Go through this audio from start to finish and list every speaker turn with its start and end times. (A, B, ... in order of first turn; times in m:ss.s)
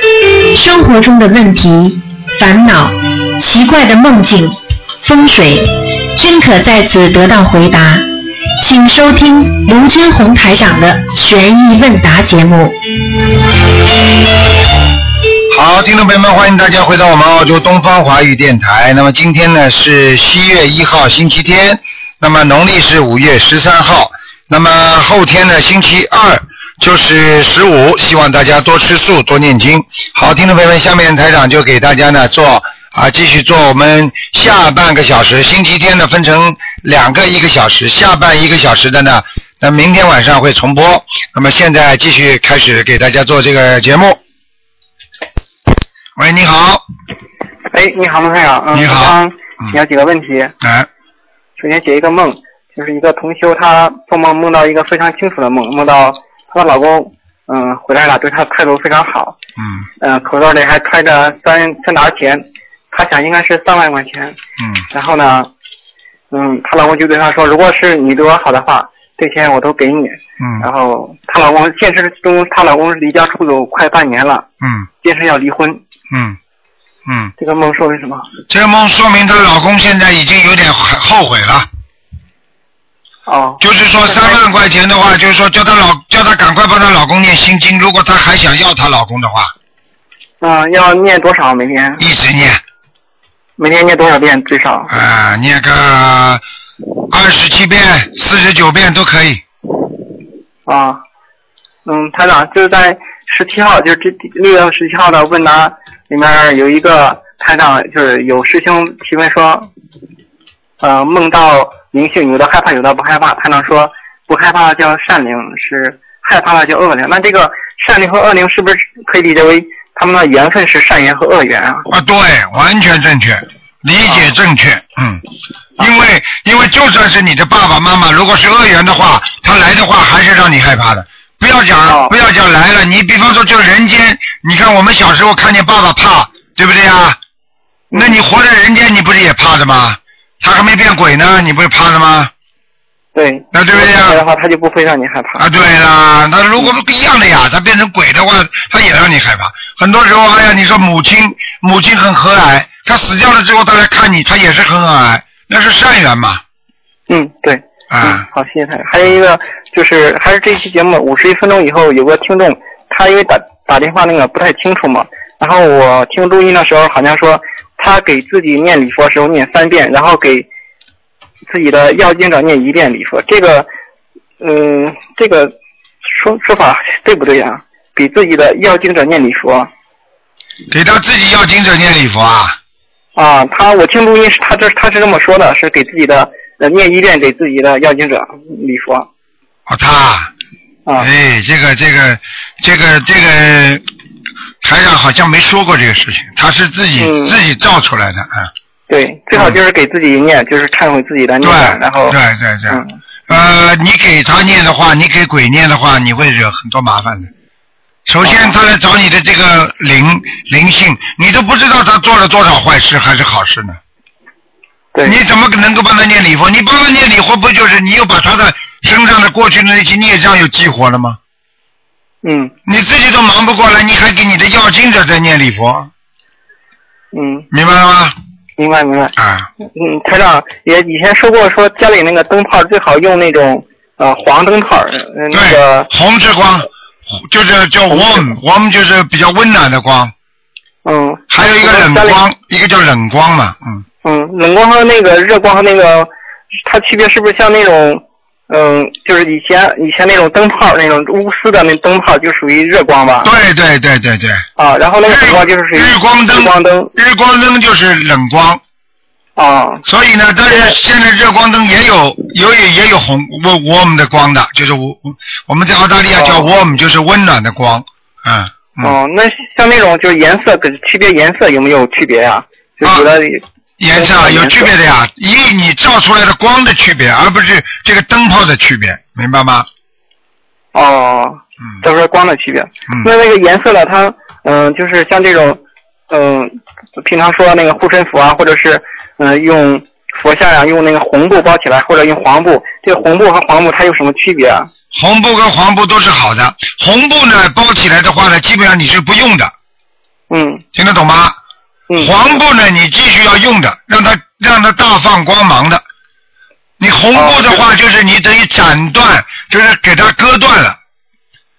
0:00.6-0:08.1 A
0:08.6-0:12.8 A
0:15.5-0:44.2 B
0:46.2-0:46.8 B
0:47.7-0:50.5 C
0:48.7-0:49.8 B
0:50.6-0:50.9 B
0:51.6-0:59.4 C
0:59.6-0:59.9 B
1:00.0-1:04.4 C
1:04.6-1:04.8 B
1:04.9-1:05.5 C
1:06.3-1:14.5 C
1:10.4-1:10.7 B
1:14.6-1:14.9 B
1:15.0-1:15.8 C
1:16.1-1:16.4 B
1:17.1-1:17.3 B
1:17.4-1:18.3 C
1:18.5-1:21.7 B
1:23.3-1:24.4 C
1:23.6-1:29.5 B
1:30.4-1:32.0 C
1:32.0-1:32.6 B
1:33.6-1:34.9 C
1:34.9-1:36.4 B
1:37.1-1:39.4 B
1:40.7-1:41.0 C
1:41.8-1:49.7 C
1:50.8-2:01.9 C
2:01.9-2:05.2 B
2:05.8-2:17.2 B
2:11.9-2:12.1 C
2:17.9-2:18.2 C
2:17.9-2:22.3 B
2:23.2-2:25.4 C
2:23.5-2:24.2 B
2:25.4-2:36.4 B
2:37.1-2:50.5 C
2:37.9-2:38.3 B
2:51.5-2:53.7 C
2:54.4-2:55.5 C
2:56.0-2:59.7 C
3:00.7-3:02.6 B
3:03.2-3:09.1 C
3:09.7-3:10.3 B
3:11.0-3:13.8 B
3:14.6-3:18.5 B
3:17.0-3:17.4 C
3:18.9-3:22.2 C
3:21.4-3:27.3 B
3:22.7-3:23.0 C
3:28.1-3:33.8 B
3:28.2-3:28.6 C
3:35.0-3:41.2 B
3:42.2-3:42.5 C
3:42.7-3:45.9 B
3:47.1-3:47.5 C
3:47.5-3:48.2 B
3:48.6-3:49.2 C
3:49.2-3:49.5 B
3:49.7-3:55.9 C
3:55.3-4:00.1 B
3:57.9-3:58.3 C
4:00.8-4:02.2 C
4:01.3-4:03.8 B
4:04.0-4:06.1 C
4:06.6-4:13.3 C
4:13.2-4:14.5 B
4:14.6-4:16.9 C
4:15.0-4:18.6 B
4:19.4-4:19.8 C
4:19.9-4:29.0 B
4:20.5-4:20.8 C
4:26.2-4:26.5 C
4:28.8-4:33.4 C
4:32.8-4:33.1 B
4:33.8-4:39.7 B
4:33.9-4:34.7 C
4:40.7-4:54.7 C
4:54.9-4:59.5 B
5:00.3-5:00.6 C
5:00.7-5:01.4 B
5:02.0-5:05.8 B
5:06.8-5:10.8 B
5:07.1-5:07.6 C